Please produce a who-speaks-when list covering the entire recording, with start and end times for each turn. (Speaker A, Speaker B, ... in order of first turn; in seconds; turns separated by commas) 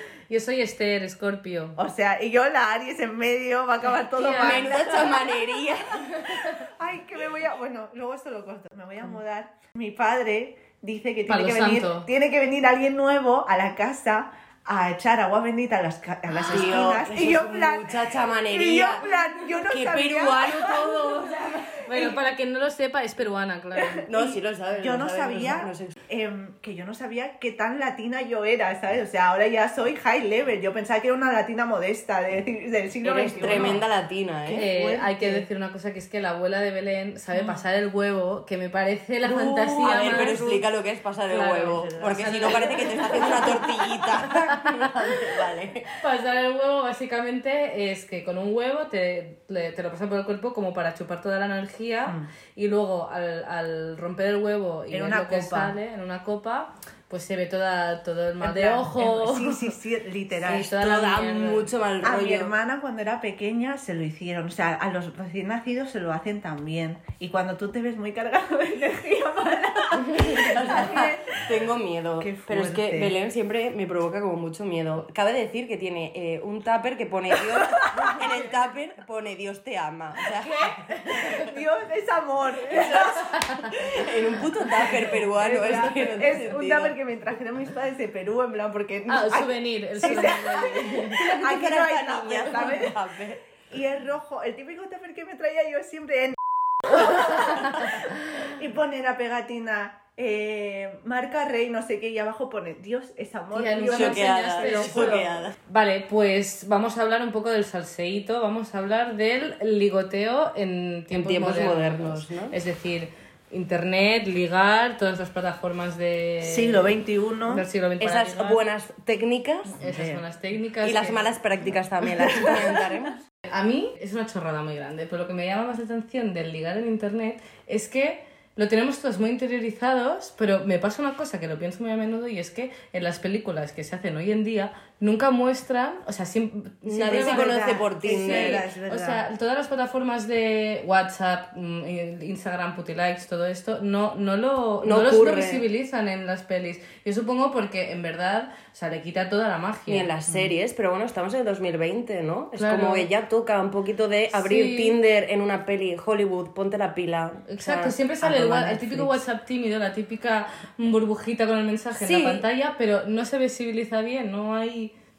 Speaker A: 0.3-1.8, Speaker B: 1.8-5.4, Speaker A: 4.0-4.7, Speaker C: 4.4-6.3, Speaker A: 6.1-6.6, Speaker B: 6.6-22.1, Speaker A: 11.3-12.1, Speaker C: 16.4-22.0, Speaker A: 21.9-24.1, Speaker B: 23.8-33.8, Speaker C: 24.1-25.9, Speaker C: 33.0-34.7, Speaker B: 34.5-35.5, Speaker A: 34.6-40.6, Speaker C: 39.2-45.9, Speaker A: 41.3-44.7, Speaker B: 42.0-43.6, Speaker A: 45.9-59.8, Speaker B: 52.1-52.3, Speaker B: 54.9-55.8, Speaker B: 58.4-60.7, Speaker A: 60.5-61.7, Speaker C: 60.5-62.5, Speaker B: 62.0-71.6, Speaker C: 70.0-80.9, Speaker B: 72.2-73.2, Speaker B: 77.5-78.3, Speaker A: 80.4-81.5, Speaker B: 81.2-83.4, Speaker C: 82.7-87.0, Speaker A: 83.2-83.7, Speaker B: 85.0-93.0, Speaker A: 89.1-91.3, Speaker C: 91.1-93.4, Speaker B: 93.7-105.3, Speaker A: 97.3-97.9, Speaker A: 103.5-117.0, Speaker C: 103.9-105.5, Speaker C: 111.1-112.5, Speaker B: 116.4-117.7, Speaker A: 117.5-118.6, Speaker C: 118.0-120.2, Speaker A: 119.8-121.3, Speaker C: 120.8-123.2, Speaker A: 123.5-150.1, Speaker C: 136.9-138.7, Speaker B: 137.0-139.2, Speaker C: 144.8-145.7, Speaker C: 149.9-159.2, Speaker B: 150.3-150.5, Speaker A: 152.6-153.1, Speaker A: 154.3-155.0, Speaker A: 157.5-164.9, Speaker C: 162.0-162.5